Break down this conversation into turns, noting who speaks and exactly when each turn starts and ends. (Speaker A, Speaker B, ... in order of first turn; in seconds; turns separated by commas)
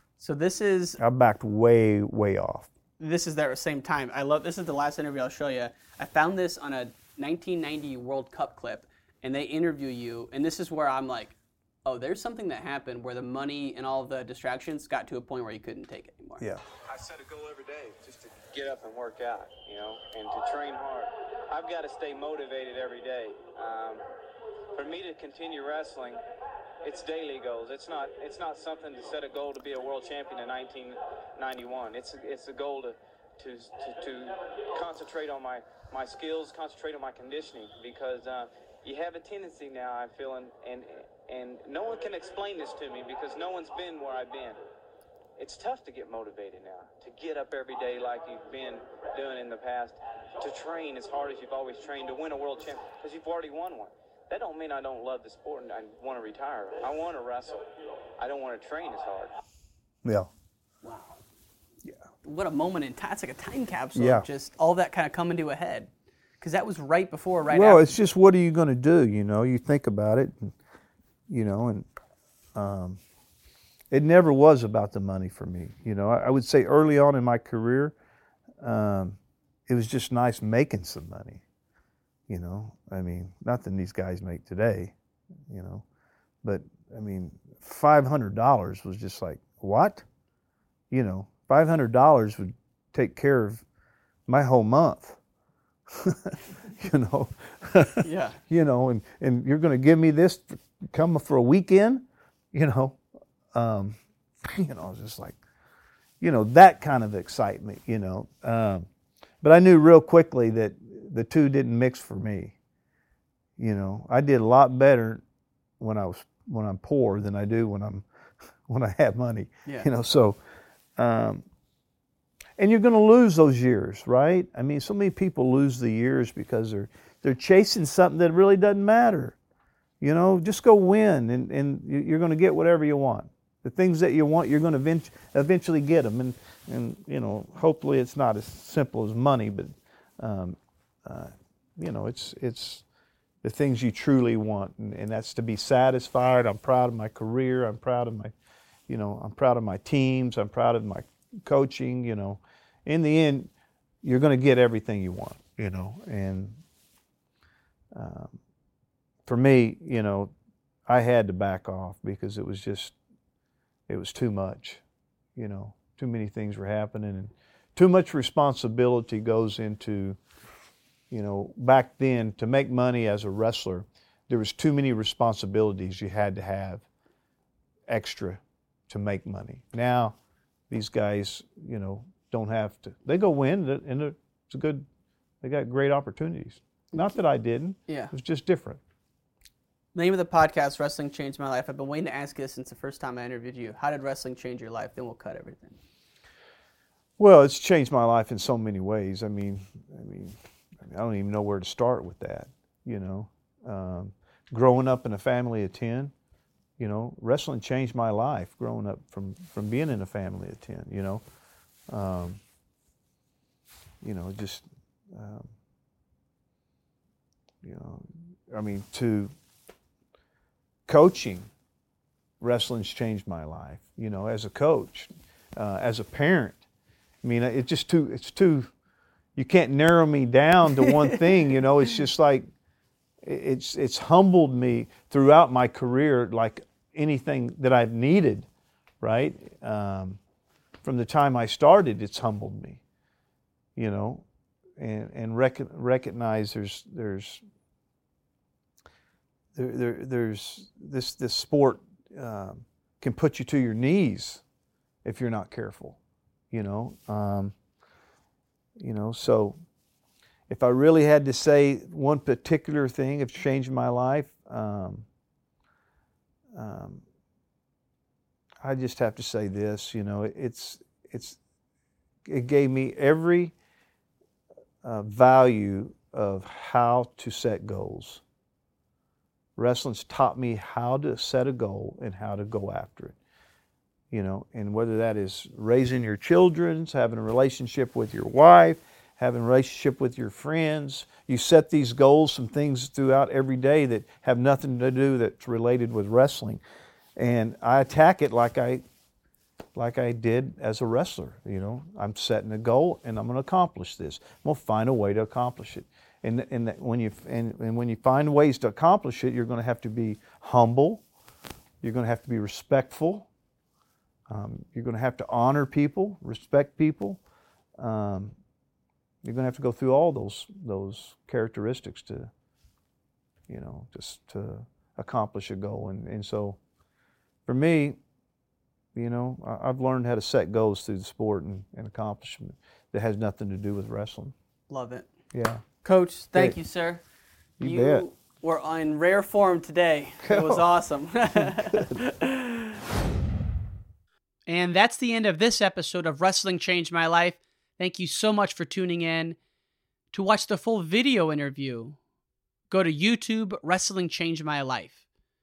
Speaker A: 0.2-1.0, Speaker B: 1.0-2.7, Speaker A: 3.0-16.4, Speaker C: 16.8-24.0, Speaker C: 24.7-26.2, Speaker C: 26.8-44.6, Speaker C: 45.4-57.6, Speaker C: 58.2-59.4, Speaker A: 60.8-61.2, Speaker A: 62.2-65.9, Speaker B: 63.9-64.2, Speaker A: 66.4-67.8, Speaker B: 67.5-70.5, Speaker B: 71.3-71.9, Speaker B: 72.5-73.0, Speaker B: 73.9-77.9, Speaker B: 78.6-81.4, Speaker B: 82.3-84.9, Speaker B: 85.5-85.8, Speaker B: 86.4-90.0, Speaker B: 90.9-93.6, Speaker B: 94.3-95.2, Speaker B: 95.9-103.0, Speaker A: 98.0-98.4, Speaker B: 103.5-105.4, Speaker B: 106.2-108.9, Speaker B: 109.4-112.5, Speaker B: 113.6-115.2, Speaker B: 115.8-118.0, Speaker B: 118.7-120.4, Speaker B: 121.0-121.4, Speaker B: 122.6-129.3, Speaker B: 130.0-142.8, Speaker B: 143.4-148.3, Speaker B: 148.9-153.5, Speaker B: 154.0-156.6, Speaker B: 157.9-158.3, Speaker B: 159.2-160.3, Speaker B: 160.9-162.9, Speaker B: 163.9-164.8, Speaker B: 165.3-170.2, Speaker B: 171.1-176.8, Speaker B: 177.9-180.2, Speaker B: 180.7-184.8, Speaker B: 185.4-188.8, Speaker A: 187.9-188.1, Speaker A: 189.9-195.8, Speaker B: 197.2-206.1, Speaker B: 206.8-211.2, Speaker B: 211.9-212.4, Speaker B: 214.0-215.5, Speaker B: 217.6-219.3, Speaker B: 220.9-221.5, Speaker B: 222.4-226.6, Speaker B: 227.2-228.7, Speaker B: 229.3-232.5, Speaker B: 233.2-238.5, Speaker B: 239.0-240.2, Speaker B: 240.8-242.8, Speaker B: 243.8-244.2, Speaker B: 244.8-247.4, Speaker B: 249.5-254.4, Speaker B: 255.0-256.0, Speaker B: 256.5-257.5, Speaker B: 258.8-259.6, Speaker B: 260.5-265.1, Speaker B: 266.5-267.0, Speaker B: 268.6-271.4, Speaker B: 272.3-273.5, Speaker B: 274.8-278.2, Speaker B: 279.6-283.1, Speaker B: 284.1-296.6, Speaker B: 297.2-298.8, Speaker B: 299.8-311.0, Speaker B: 311.8-313.3, Speaker B: 314.3-317.2, Speaker B: 317.8-318.4, Speaker B: 319.2-322.3, Speaker B: 323.5-326.6, Speaker B: 327.4-328.0, Speaker B: 328.9-334.3, Speaker A: 334.7-335.1, Speaker B: 335.3-335.6, Speaker A: 335.8-337.0, Speaker B: 337.6-338.0, Speaker A: 337.6-342.8, Speaker B: 340.2-340.6, Speaker B: 341.4-341.9, Speaker A: 344.5-349.4, Speaker A: 350.1-352.0, Speaker A: 352.7-355.0